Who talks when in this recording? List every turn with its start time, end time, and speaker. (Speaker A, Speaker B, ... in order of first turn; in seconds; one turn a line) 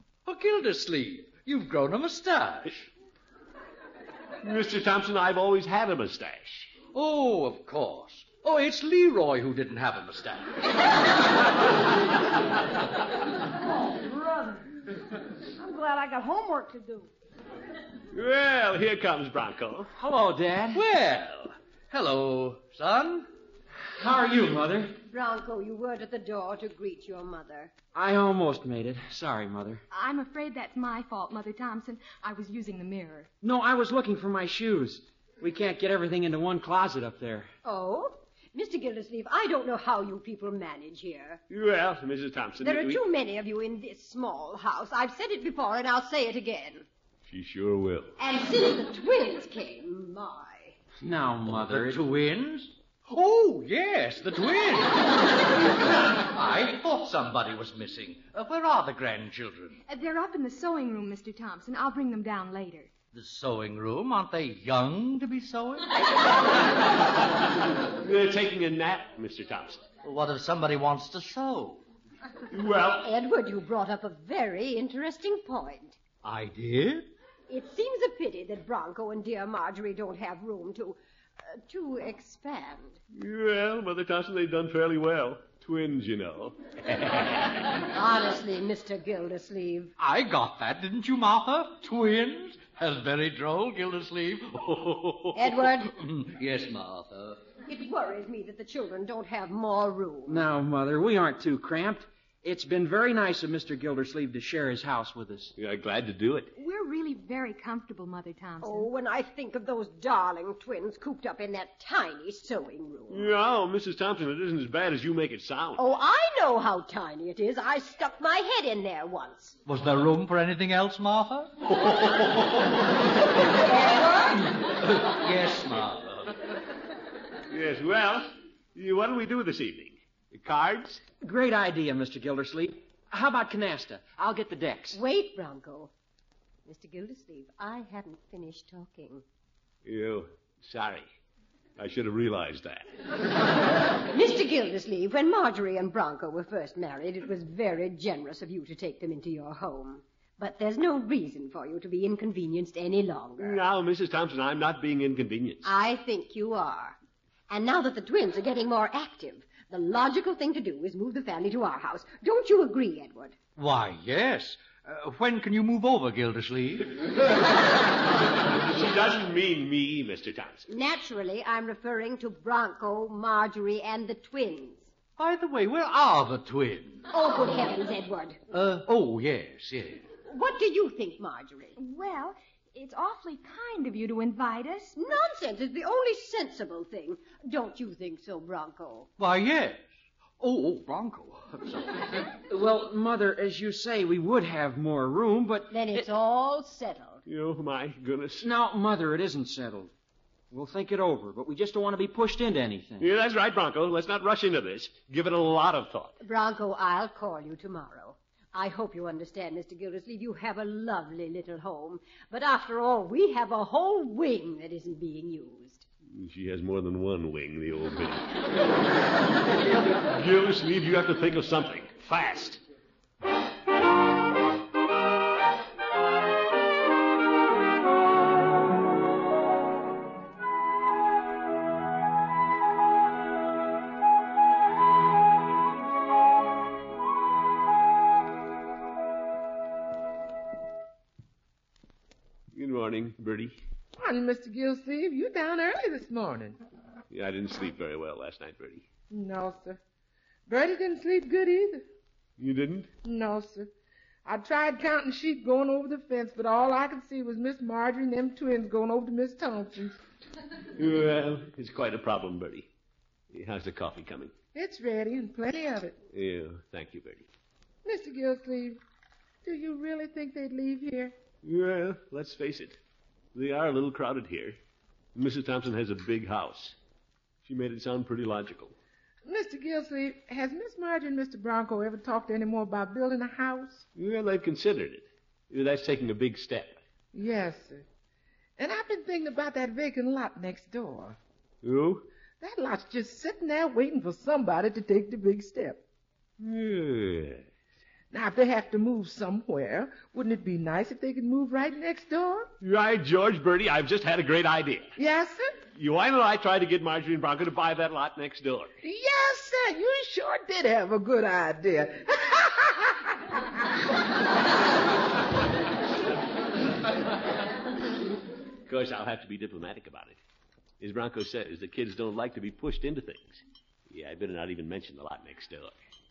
Speaker A: 0.2-2.9
Speaker B: 4.4-6.8
Speaker A: 6.8-10.6
Speaker C: 13.9-14.6
Speaker C: 15.6-17.1
Speaker B: 18.1-19.9
Speaker D: 20.0-20.8
Speaker A: 20.7-23.3
Speaker D: 24.0-24.9
Speaker E: 25.1-27.7
Speaker D: 27.9-29.8
Speaker F: 29.9-33.3
Speaker D: 33.4-37.5
Speaker E: 37.6-41.4
Speaker B: 41.5-43.0
Speaker E: 42.6-46.9
Speaker B: 47.2-48.1
Speaker E: 48.2-50.8
Speaker D: 51.0-52.0
Speaker A: 51.4-55.4
Speaker A: 56.2-59.8
Speaker F: 59.9-62.9
Speaker A: 63.1-66.0
Speaker B: 67.9-69.9
Speaker A: 70.0-71.8
Speaker B: 72.5-73.0
Speaker E: 73.0-76.0
Speaker A: 76.2-77.1
Speaker E: 77.5-81.0
Speaker E: 81.5-83.0
Speaker B: 83.1-87.5
Speaker E: 87.9-89.9
Speaker A: 90.0-97.5
Speaker E: 95.3-95.9
Speaker E: 97.6-100.5
Speaker D: 100.2-105.5
Speaker B: 105.5-106.5
Speaker F: 106.6-108.9
Speaker E: 108.6-113.3
Speaker B: 113.1-115.8
Speaker E: 115.8-119.6
Speaker A: 119.6-121.6
Speaker B: 121.7-122.4
Speaker E: 123.7-124.3
Speaker A: 124.8-126.3
Speaker B: 127.5-131.0
Speaker D: 131.2-135.0
Speaker E: 134.9-135.9
Speaker E: 136.7-139.2
Speaker B: 139.8-141.1
Speaker B: 141.8-142.8
Speaker E: 144.0-153.6
Speaker B: 153.4-155.7
Speaker E: 155.6-157.0
Speaker E: 157.5-163.4
Speaker A: 163.6-166.9
Speaker B: 168.5-170.7
Speaker E: 170.7-174.9
Speaker A: 175.2-177.1
Speaker E: 177.1-178.4
Speaker A: 178.5-180.0
Speaker E: 180.2-181.8
Speaker F: 181.8-184.9
Speaker E: 184.9-189.1
Speaker A: 189.2-189.9
Speaker A: 190.4-192.0
Speaker D: 192.5-196.1
Speaker E: 195.7-197.2
Speaker B: 197.2-198.5
Speaker D: 198.4-199.9
Speaker D: 200.5-203.1
Speaker B: 203.0-206.2
Speaker E: 206.2-215.8
Speaker B: 216.1-218.4
Speaker B: 220.1-222.6
Speaker B: 242.5-243.6
Speaker G: 244.0-246.6
Speaker B: 247.1-248.8
Speaker G: 249.1-249.8
Speaker G: 250.5-251.8
Speaker B: 252.4-252.9
Speaker G: 253.0-253.7
Speaker G: 254.2-260.0
Speaker B: 260.8-262.7
Speaker B: 263.3-264.3
Speaker G: 264.5-266.0
Speaker B: 266.1-267.3
Speaker G: 267.8-268.8
Speaker G: 269.4-271.1
Speaker B: 271.4-272.8
Speaker B: 273.3-274.6
Speaker B: 275.1-276.8
Speaker B: 277.4-278.7
Speaker G: 279.2-283.8
Speaker B: 283.9-286.8
Speaker G: 287.1-287.8
Speaker G: 288.6-291.2
Speaker B: 291.6-292.0
Speaker G: 292.4-295.8
Speaker B: 296.4-297.5
Speaker G: 298.1-302.5
Speaker B: 302.6-304.9
Speaker G: 305.0-305.5
Speaker B: 305.7-308.7
Speaker G: 308.8-313.4
Speaker B: 318.6-320.2
Speaker B: 320.8-325.8